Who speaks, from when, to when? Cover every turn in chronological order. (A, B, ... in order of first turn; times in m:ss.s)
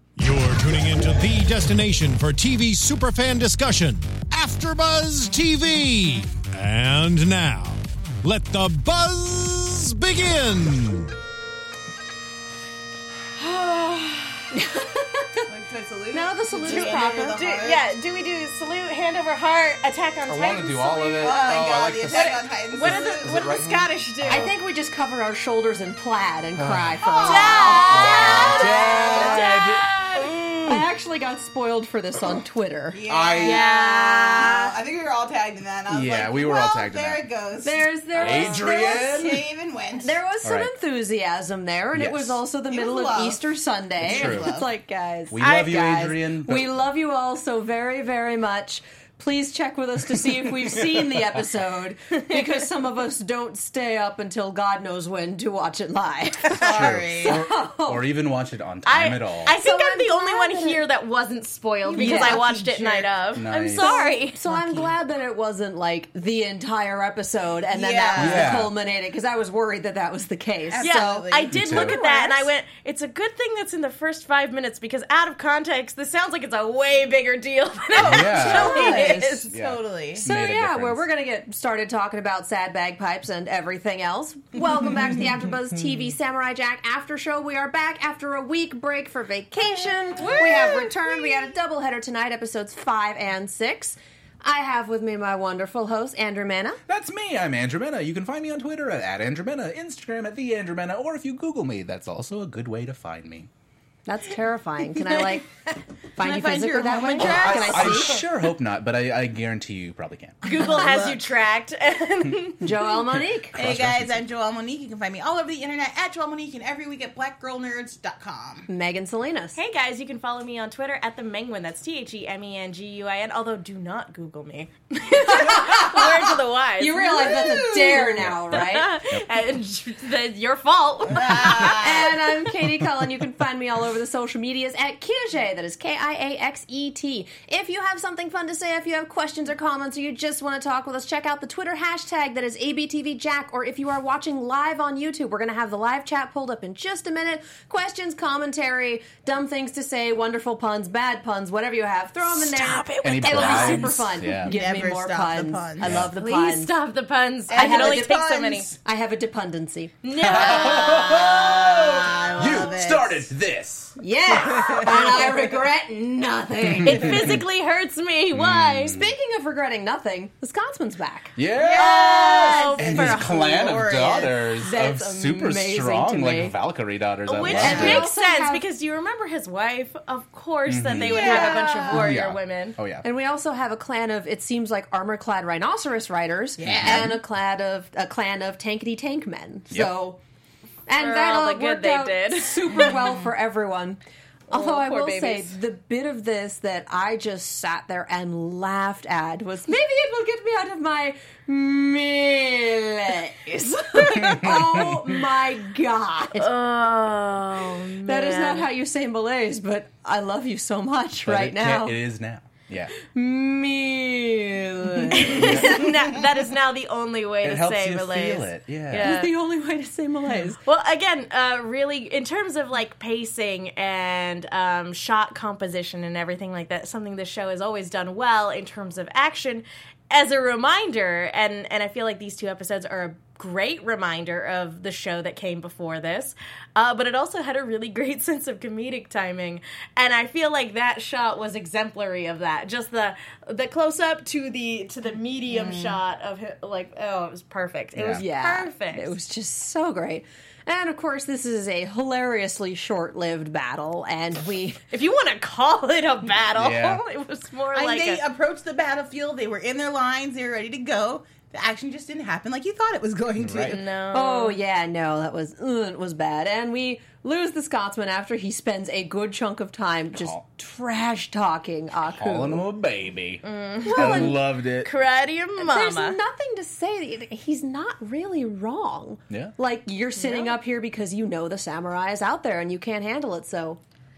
0:00.2-0:11.1 A
0:13.4-0:14.5 B
0:14.5-0:15.5 C
0:15.5-0:17.8 D
0:16.1-0:17.4 C
0:16.6-0:24.5 B
0:20.3-0:24.5 E
0:21.2-0:23.7 D
0:24.3-0:29.4 C
0:26.6-0:27.3 E
0:27.2-0:30.3 B
0:27.2-0:29.4 D
0:27.8-0:29.9 E
0:30.2-0:30.7 D
0:30.6-0:33.0 C
0:32.9-0:40.2 D
0:33.1-0:33.7 E
0:33.4-0:34.8 B
0:35.9-0:37.2 E
0:37.6-0:39.3 C
0:38.2-0:39.4 E
0:40.0-0:58.0 C
0:40.4-0:40.7 E
0:41.9-0:42.4 E
0:42.7-0:43.4 D
0:44.0-0:44.5 E
0:44.0-0:44.7 D
0:45.3-0:46.7 E
0:50.7-0:51.0 E
0:56.6-0:57.4 D
0:56.6-0:59.6 E
0:58.8-1:04.4 B
0:59.6-1:00.8 C
1:01.8-1:03.2 D
1:01.9-1:02.4 C
1:03.3-1:03.9 E
1:03.8-1:12.5 C
1:04.5-1:04.9 D
1:07.7-1:08.7 D
1:08.2-1:08.7 E
1:10.7-1:11.6 D
1:10.8-1:19.5 B
1:11.5-1:12.0 E
1:18.0-1:20.3 D
1:18.0-1:21.1 E
1:18.4-1:18.9 C
1:20.2-1:36.8 C
1:30.2-1:31.5 D
1:36.9-1:43.5 E
1:44.1-1:45.5 C
1:46.2-1:48.2 C
1:46.2-1:48.3 D
1:47.2-1:50.4 E
1:50.4-1:51.2 D
1:50.4-1:52.8 B
1:52.6-1:53.5 C
1:53.2-1:54.3 E
1:53.5-1:58.7 D
1:58.7-1:59.6 C
1:59.6-2:07.2 B
2:05.2-2:06.2 C
2:06.8-2:08.9 C
2:07.0-2:08.2 D
2:08.2-2:09.3 E
2:08.5-2:12.3 B
2:11.1-2:12.1 D
2:11.6-2:36.7 C
2:32.3-2:34.0 B
2:33.0-2:34.6 E
2:34.4-2:36.0 D
2:35.8-2:36.1 E
2:36.2-2:38.7 B
2:37.5-2:38.8 D
2:37.6-2:38.2 C
2:38.8-2:39.9 C
2:40.0-2:41.5 B
2:40.2-2:44.0 E
2:40.6-2:43.3 D
2:44.0-2:47.3 C
2:44.3-2:45.5 D
2:44.9-2:45.2 B
2:46.7-2:47.4 E
2:46.8-2:49.0 B
2:48.3-2:49.1 E
2:48.9-2:51.4 C
2:51.4-2:58.0 E
2:51.6-2:54.4 D
2:51.7-2:53.4 B
2:54.6-2:56.6 C
2:57.3-3:02.8 B
2:57.4-2:58.0 D
2:57.6-2:58.6 C
3:00.7-3:03.0 E
3:01.0-3:02.1 D
3:03.0-3:10.2 C
3:06.6-3:07.2 D
3:06.6-3:07.2 E
3:10.9-3:26.5 C
3:11.0-3:13.1 B
3:12.8-3:13.1 D
3:14.5-3:15.5 B
3:24.0-3:25.1 E
3:26.4-3:28.7 B
3:28.1-3:32.0 C
3:31.2-3:32.9 E
3:33.1-3:35.9 C
3:35.1-3:39.3 B
3:35.3-3:35.9 E
3:37.4-3:39.1 E
3:39.0-3:40.6 C
3:40.6-4:09.1 B
4:05.5-4:06.0 D
4:08.0-4:08.2 E
4:08.1-4:14.8 C
4:14.9-4:18.2 B
4:16.6-4:17.0 E
4:17.7-4:23.8 D
4:23.4-4:23.8 E
4:23.6-4:24.6 B
4:24.1-4:32.7 C
4:30.1-4:30.5 E
4:32.0-4:34.9 E
4:33.4-4:36.2 B
4:33.8-4:34.4 C
4:35.6-4:43.8 C
4:40.2-4:40.5 B